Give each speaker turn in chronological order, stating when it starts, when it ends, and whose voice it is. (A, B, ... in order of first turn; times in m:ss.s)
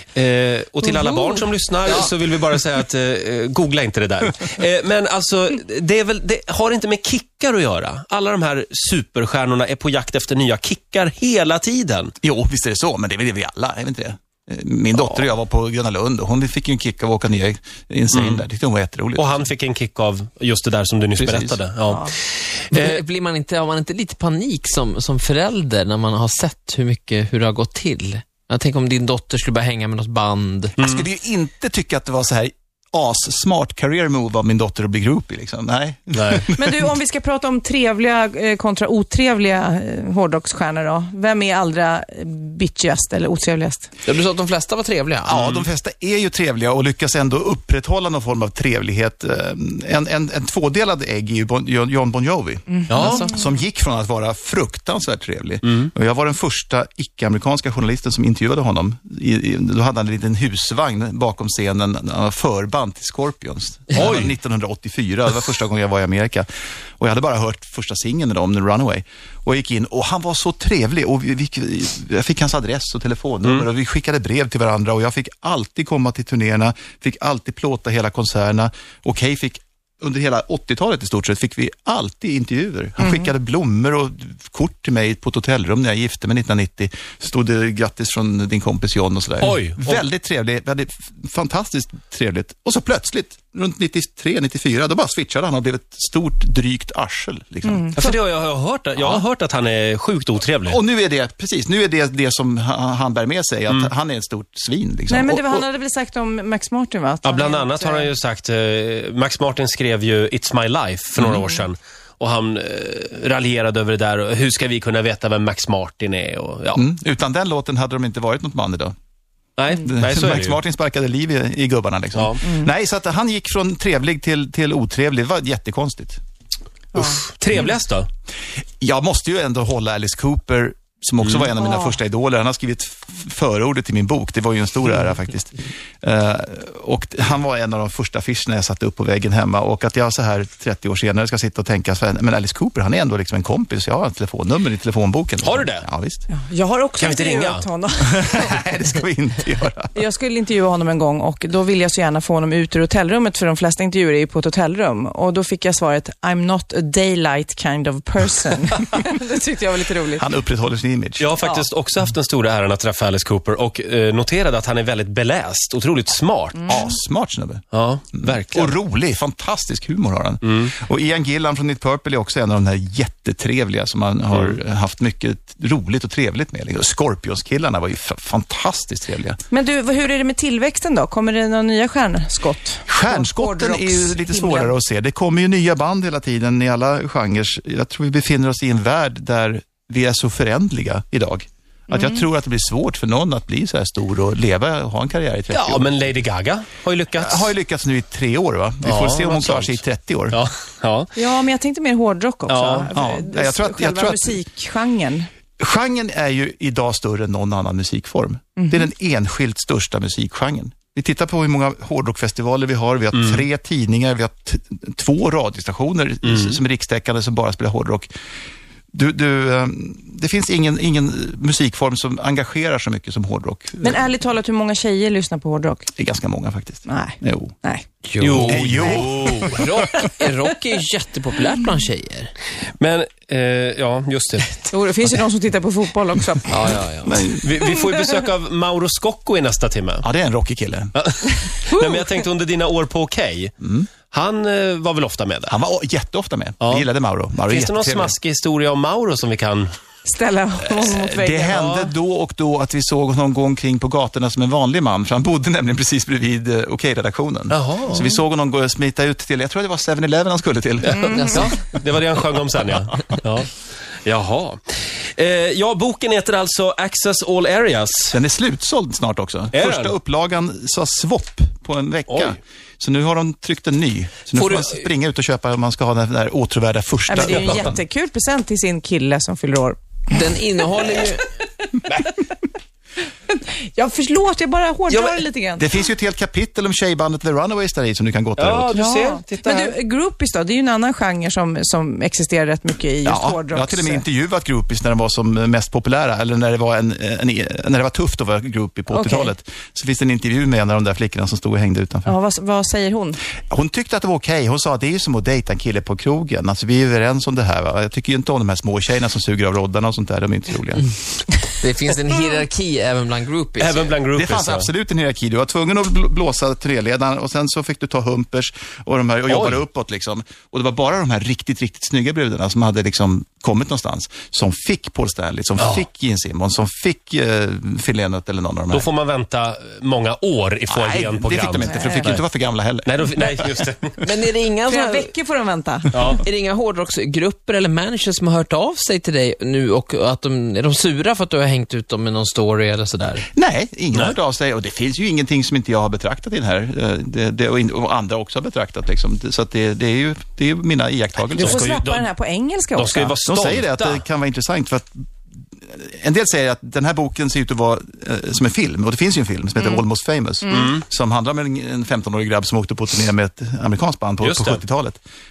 0:00.1-0:12.1 A
0:00.9-0:01.4 B
0:12.2-0:19.4 C
0:15.0-0:15.2 A
0:18.1-0:18.4 A
0:19.1-0:23.0 A
0:21.2-0:21.6 C
0:22.7-0:30.7 B
0:30.8-0:31.0 A
0:30.8-0:36.9 C
0:36.1-0:36.5 A
0:36.6-0:43.9 D
0:44.0-0:45.4 B
0:45.2-1:06.5 C
0:45.3-0:45.7 A
0:52.7-0:53.3 D
0:52.9-0:53.3 A
1:03.9-1:04.3 A
1:07.0-1:37.9 C
1:23.0-1:23.3 D
1:29.4-1:30.0 A
1:37.6-1:38.1 D
1:38.0-1:40.8 A
1:39.0-1:39.2 C
1:40.6-1:45.6 C
1:45.1-1:48.1 D
1:47.2-1:56.8 A
1:51.2-1:51.4 C
1:56.7-1:58.9 C
1:59.6-2:00.6 A
1:59.8-2:06.2 C
2:02.1-2:02.4 A
2:06.9-2:07.2 D
2:07.0-2:08.1 A
2:08.8-2:26.2 C
2:11.2-2:11.5 A
2:11.6-2:12.0 D
2:25.4-2:25.8 A
2:26.3-2:28.5 D
2:27.0-2:27.6 A
2:28.0-2:29.9 C
2:29.9-2:40.2 D
2:40.1-2:41.3 C
2:41.2-2:46.8 A
2:46.6-2:47.0 D
2:46.7-2:59.4 C
2:47.7-2:48.8 A
2:50.4-2:50.7 A
2:54.3-2:54.6 A
2:59.5-3:04.7 D
3:02.9-3:15.9 C
3:11.9-3:12.2 D
3:15.5-3:17.5 A
3:17.2-3:20.4 C
3:18.8-3:19.8 A
3:20.3-3:21.1 A
3:21.1-3:25.3 D
3:22.5-3:22.9 A
3:22.9-3:24.4 C
3:25.6-3:38.1 C
3:28.6-3:28.9 D
3:33.1-3:33.4 A
3:36.2-3:36.6 A
3:38.9-3:44.0 C
3:43.8-3:45.9 D
3:46.0-3:47.5 C
3:46.9-3:47.8 D
3:48.0-3:52.3 B
3:48.2-3:49.6 A
3:48.4-3:49.7 C
3:52.8-3:54.7 A
3:54.7-3:56.7 D
3:56.5-3:57.3 B
3:57.0-3:57.5 C
3:57.4-4:00.0 A
4:00.0-4:00.9 C
4:00.9-4:03.5 A
4:01.7-4:02.0 D
4:03.6-4:03.9 C
4:04.1-4:05.5 A
4:05.5-4:08.1 C
4:06.6-4:06.9 A
4:07.4-4:09.7 A
4:10.0-4:11.9 D
4:10.8-4:21.6 C
4:17.5-4:18.1 A
4:20.9-4:21.5 D
4:21.0-4:23.5 A
4:24.0-4:28.2 A
4:28.1-4:37.8 C
4:29.5-4:29.9 A
4:32.1-4:32.4 A
4:34.3-4:34.8 B
4:37.1-4:40.2 D
4:40.1-4:41.3 B
4:43.3-4:45.7 D
4:44.9-4:45.2 A
4:45.6-4:48.7 C
4:48.4-4:49.7 A
4:48.7-4:54.0 D
4:53.0-5:02.1 C
4:58.9-4:59.3 D
5:02.0-5:03.2 D
5:03.4-5:10.9 C
5:11.6-5:13.9 B
5:13.6-5:14.7 A
5:14.1-5:28.9 C
5:19.3-5:19.6 A
5:28.7-5:32.2 A
5:30.7-5:33.3 C
5:31.6-5:32.1 D
5:32.8-5:34.1 A
5:34.0-5:35.1 B
5:34.7-5:36.2 D
5:35.9-5:36.2 A
5:36.2-5:43.2 B
5:43.3-5:51.7 C
5:51.4-5:52.0 A
5:51.4-5:53.2 D
5:52.8-5:54.0 A
5:53.2-5:55.0 C
5:55.6-6:05.0 C
5:59.6-5:59.8 D
6:00.5-6:00.8 A
6:04.2-6:04.6 A